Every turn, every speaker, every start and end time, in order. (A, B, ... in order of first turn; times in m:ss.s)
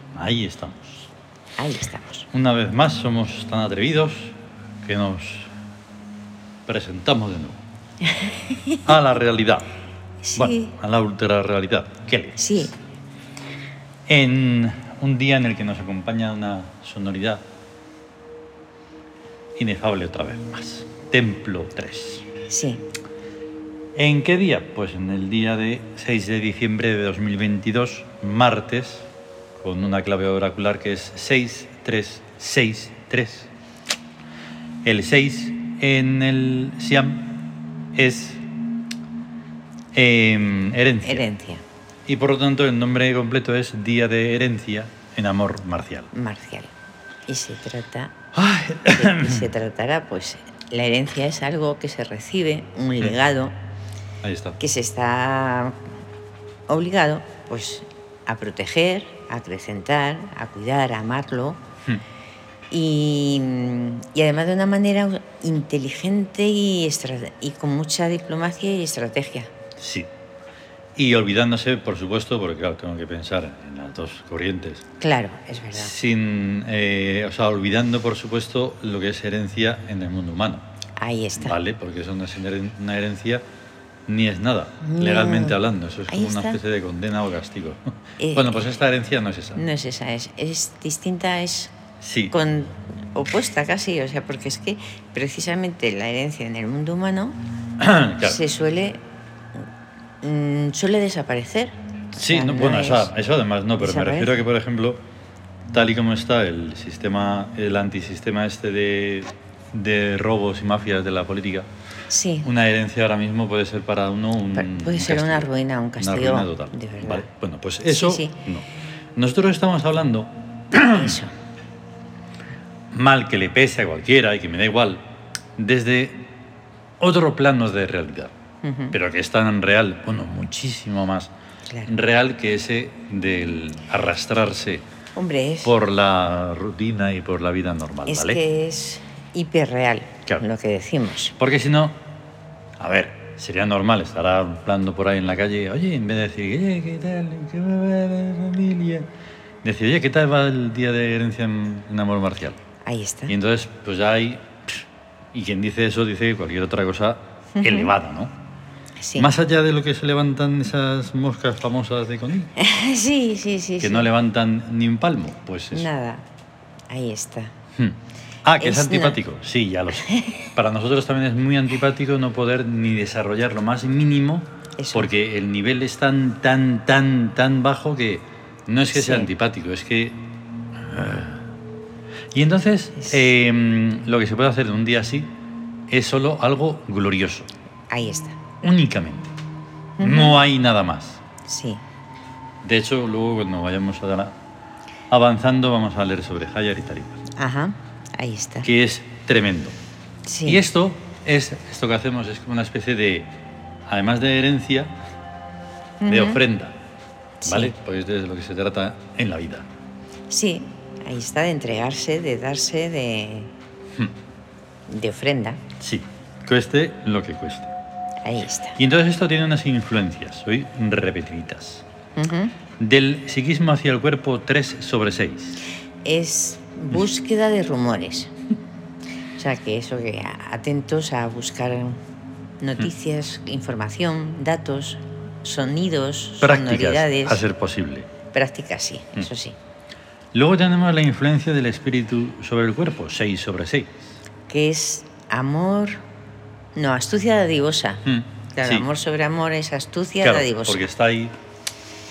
0:00.1-0:01.1 A
0:01.6-0:02.3 B
0:02.3-0:05.5 A
0:06.6-0:07.6 A
0:08.0-0:08.8 B
0:08.8-0:09.7 A
0:10.2-0:10.7 B
0:10.4-0:12.5 A
0:12.4-0:12.7 B
0:14.1-0:17.4 A
0:19.6-0:22.2 A
0:22.5-0:22.8 B
0:23.9-0:33.5 A
0:34.8-0:37.3 A
0:37.9-0:38.4 A
0:39.9-0:41.2 A
0:41.0-0:41.6 B
0:42.0-0:46.1 A
0:46.1-0:46.7 B
0:47.3-0:48.1 B
0:48.3-0:49.5 A
0:48.9-0:53.5 B
0:54.2-0:54.6 A
0:54.6-0:55.8 B
0:56.7-1:01.6 B
1:02.7-1:09.5 B
1:09.8-1:10.1 A
1:11.0-1:14.8 A
1:15.0-1:15.9 B
1:15.7-1:20.6 A
1:21.0-1:21.6 B
1:21.4-1:23.4 A
1:24.1-1:29.6 A
1:24.8-1:26.6 B
1:28.2-1:28.6 B
1:29.5-1:31.7 B
1:32.0-1:32.3 A
1:32.3-1:37.4 B
1:37.8-1:38.4 A
1:38.2-1:39.0 B
1:40.2-1:43.1 B
1:42.2-1:45.0 A
1:43.8-1:44.4 B
1:45.7-1:51.7 A
1:52.1-1:52.5 B
1:52.4-1:55.5 A
1:54.5-1:57.3 B
1:56.0-2:01.2 A
1:57.9-1:58.4 B
2:00.9-2:01.3 B
2:02.9-2:05.0 A
2:05.6-2:06.3 A
2:07.0-2:08.3 A
2:08.6-2:09.0 B
2:08.9-2:11.3 A
2:11.7-2:11.9 B
2:11.8-2:14.8 A
2:15.2-2:15.7 B
2:15.6-2:18.4 A
2:18.1-2:21.4 B
2:21.4-2:22.0 A
2:22.8-2:29.1 A
2:29.6-2:32.6 A
2:32.8-2:33.3 B
2:33.3-2:38.3 A
2:37.6-2:37.9 B
2:39.0-2:39.3 B
2:39.2-2:42.5 A
2:42.6-2:44.1 B
2:43.8-2:45.9 A
2:45.7-2:46.2 B
2:46.9-2:47.5 B
2:47.7-3:00.2 A
2:48.6-2:49.2 B
2:49.9-2:50.4 B
2:54.8-2:55.1 B
2:58.9-2:59.3 B
3:00.7-3:01.5 A
3:02.3-3:05.3 A
3:05.9-3:07.5 A
3:07.9-3:08.4 B
3:08.6-3:09.3 A
3:10.0-3:10.4 B
3:10.0-3:11.2 A
3:11.5-3:11.8 B
3:12.6-3:14.4 A
3:15.1-3:17.2 A
3:17.4-3:18.7 B
3:18.6-3:19.8 A
3:20.2-3:20.6 B
3:20.4-3:23.3 A
3:23.9-3:24.9 A
3:26.0-3:26.4 B
3:26.1-3:26.7 A
3:27.4-3:27.7 B
3:27.4-3:29.6 A
3:30.3-3:33.5 B
3:34.9-3:35.6 B
3:35.8-3:37.7 A
3:38.2-3:38.8 B
3:38.8-3:41.8 A
3:42.2-3:42.5 B
3:42.8-3:45.6 A
3:46.0-3:48.3 B
3:49.4-3:52.0 B
3:52.6-3:57.4 B
3:56.4-3:58.1 A
3:58.3-3:59.6 B
4:00.3-4:04.1 A
4:04.5-4:06.0 B
4:06.7-4:10.9 B
4:08.0-4:08.9 A
4:10.2-4:11.3 A